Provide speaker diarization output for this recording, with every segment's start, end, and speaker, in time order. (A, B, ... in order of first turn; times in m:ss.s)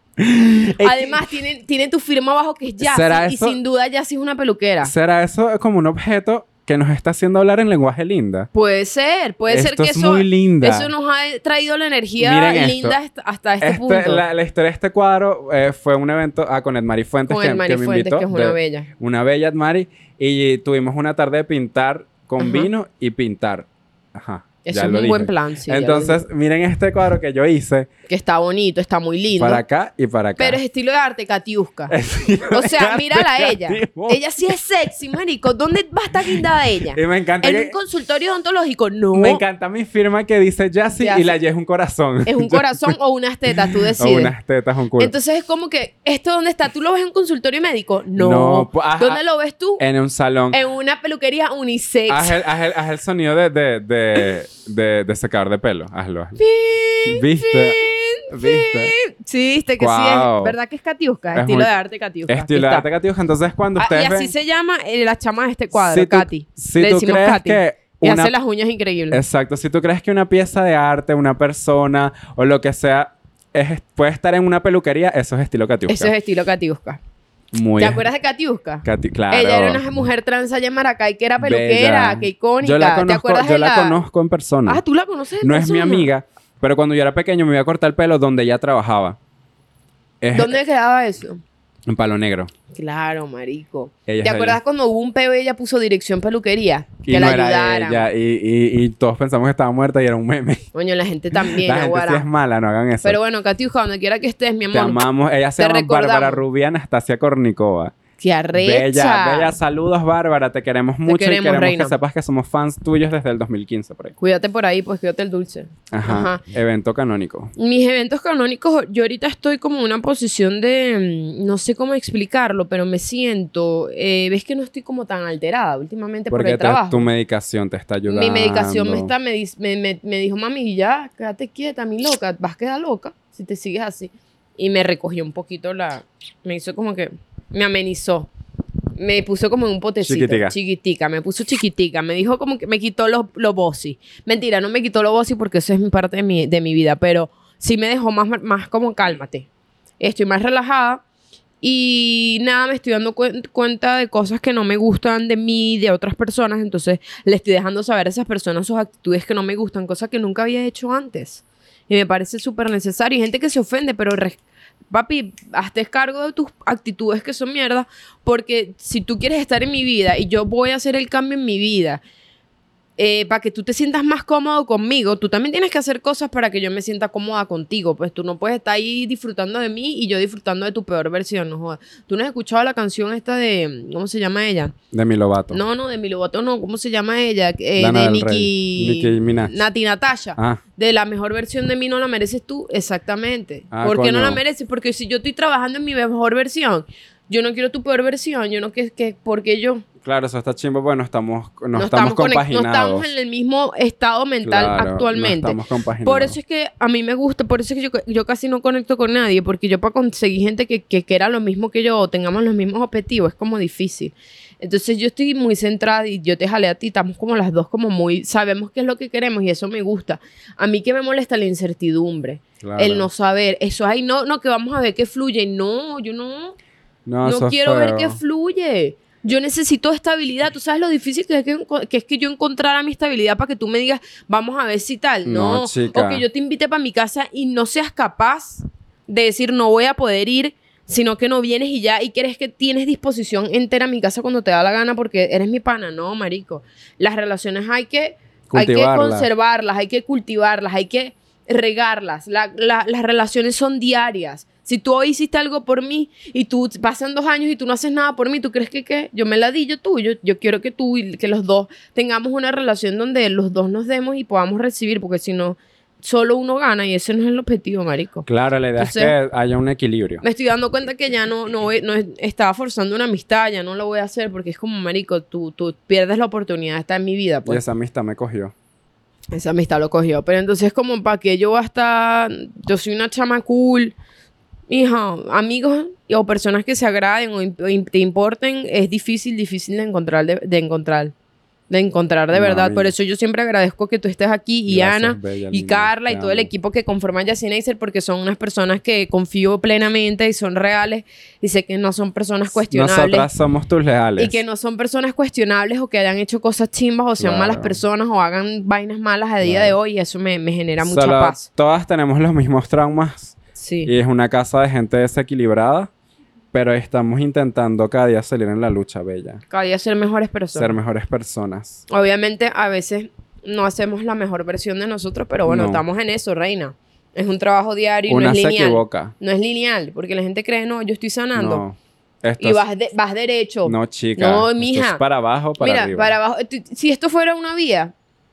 0:00.2-0:01.2 A
0:00.8-0:04.9 B
0:02.8-0:03.6 A
0:04.8-0:08.5 A
0:08.5-0:14.2 B
0:09.5-0:10.9 A
0:12.2-0:13.0 A
0:13.6-0:27.9 A
0:17.3-0:18.9 B
0:22.4-0:22.7 B
0:24.6-0:26.2 B
0:28.1-0:29.6 B
0:29.4-0:30.6 A
0:30.4-0:32.0 B
0:31.9-0:34.2 A
0:32.5-0:39.4 B
0:36.9-0:37.8 A
0:39.1-0:43.0 A
0:41.0-0:41.3 B
0:42.3-0:44.4 B
0:43.5-0:45.1 A
0:45.0-0:49.8 B
0:48.2-0:49.2 A
0:49.8-0:50.6 A
0:50.5-0:52.4 B
0:52.1-0:56.4 A
0:56.4-1:02.9 B
0:57.0-0:59.0 A
0:59.8-1:00.6 A
1:01.3-1:01.7 A
1:02.3-1:04.3 A
1:03.8-1:09.2 B
1:05.7-1:08.3 A
1:09.1-1:16.1 A
1:15.9-1:17.0 B
1:17.5-1:18.1 A
1:17.8-1:24.0 B
1:18.8-1:19.8 A
1:21.4-1:24.8 A
1:24.7-1:26.1 B
1:25.4-1:29.2 A
1:30.2-1:30.6 A
1:30.3-1:31.4 B
1:31.9-1:32.5 A
1:32.7-1:38.1 B
1:34.1-1:34.6 A
1:37.0-1:40.6 A
1:40.8-1:42.3 B
1:41.3-1:43.2 A
1:43.0-1:45.1 B
1:44.7-1:48.0 A
1:45.6-1:46.4 B
1:48.2-1:49.5 B
1:48.5-1:54.2 A
1:51.1-1:52.0 B
1:54.2-1:56.4 B
1:55.9-1:57.5 A
1:57.6-2:07.1 B
2:06.3-2:09.1 A
2:08.1-2:18.3 B
2:19.0-2:29.5 B
2:20.0-2:20.6 A
2:30.0-2:31.0 B
2:31.6-2:44.4 B
2:44.9-2:52.0 B
2:53.0-3:04.8 B
3:04.9-3:05.6 A
3:05.5-3:19.9 B
3:07.8-3:09.6 A
3:13.7-3:14.4 A
3:20.0-3:23.1 A
3:21.8-3:46.6 B
3:24.4-3:26.4 A
3:42.6-3:43.1 A
3:47.1-3:48.2 A
3:47.2-4:29.1 B
3:55.3-3:56.2 A
4:08.5-4:09.3 A
4:28.3-4:30.2 A
4:30.2-4:37.6 B
4:37.5-4:38.5 A
4:39.3-4:44.0 B
4:44.7-4:51.1 B
4:51.7-5:03.3 B
4:52.3-4:52.9 A
4:54.7-4:56.5 A
5:02.7-5:04.4 A
5:04.2-5:11.5 B
5:07.2-5:07.8 A
5:09.4-5:09.8 A
5:10.8-5:15.9 A
5:13.6-5:13.9 B
5:16.5-5:19.4 A
5:19.5-5:20.8 B
5:20.5-5:21.8 A
5:21.9-5:31.6 B
5:25.5-5:25.8 A
5:28.1-5:29.1 A
5:31.4-5:32.6 A
5:32.4-5:35.0 B
5:33.6-5:36.2 A
5:35.6-5:37.9 B